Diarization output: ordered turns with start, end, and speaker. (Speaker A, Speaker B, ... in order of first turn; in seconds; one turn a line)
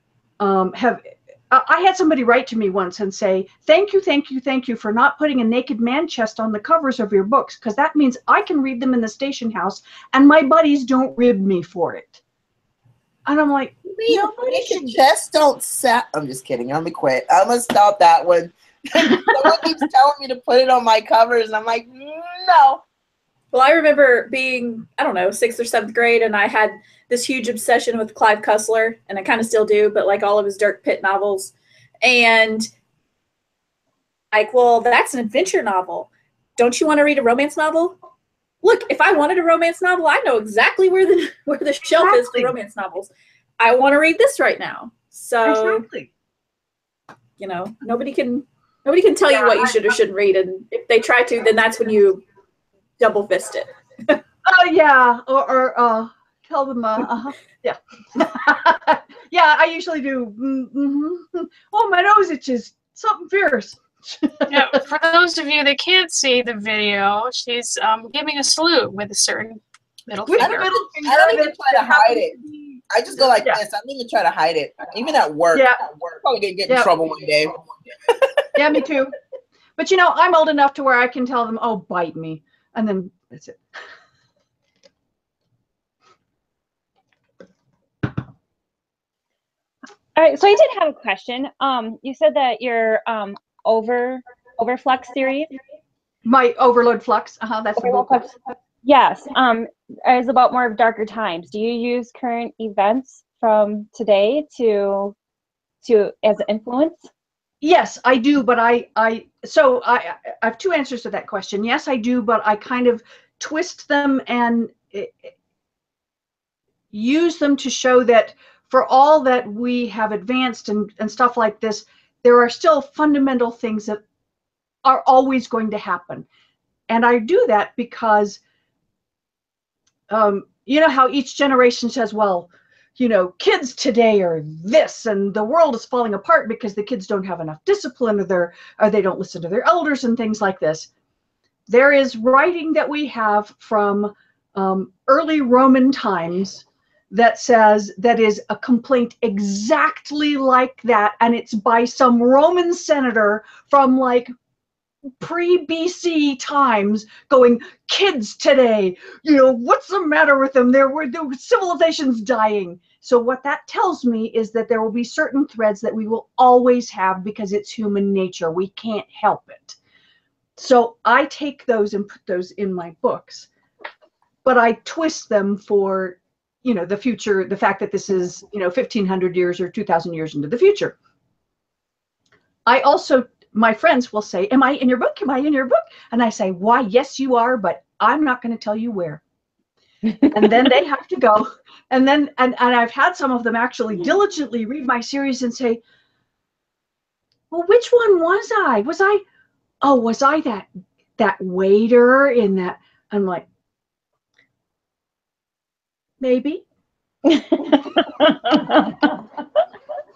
Speaker A: 0.4-12.2
Speaker A: 13.2-14.9
Speaker B: 13.9-22.8
Speaker C: 23.5-32.7
Speaker C: 34.3-38.0
Speaker C: 38.6-45.8
Speaker A: 41.8-42.5
Speaker A: 45.4-46.1
Speaker C: 47.4-52.2
Speaker A: 49.3-49.9
Speaker C: 53.0-53.7
Speaker A: 54.4-64.7
Speaker D: 64.5-70.7
Speaker A: 70.2-73.6
Speaker B: 70.4-72.3
Speaker B: 72.9-78.4
Speaker A: 75.5-75.8
Speaker A: 78.5-79.1
Speaker A: 79.8-83.6
Speaker E: 90.2-95.6
Speaker A: 96.2-98.3
Speaker E: 97.8-105.1
Speaker E: 105.8-107.1
Speaker A: 107.6-115.3
Speaker A: 116.9-124.0
Speaker A: 124.8-126.2
Speaker A: 126.9-128.4
Speaker A: 130.1-140.9
Speaker A: 141.7-154.3
Speaker A: 155.2-169.8
Speaker A: 170.6-173.5
Speaker A: 174.4-180.9
Speaker A: 182.7-189.2
Speaker A: 190.2-195.8
Speaker A: 197.5-199.2
Speaker A: 199.8-203.4
Speaker A: 206.2-206.6
Speaker E: 207.3-209.1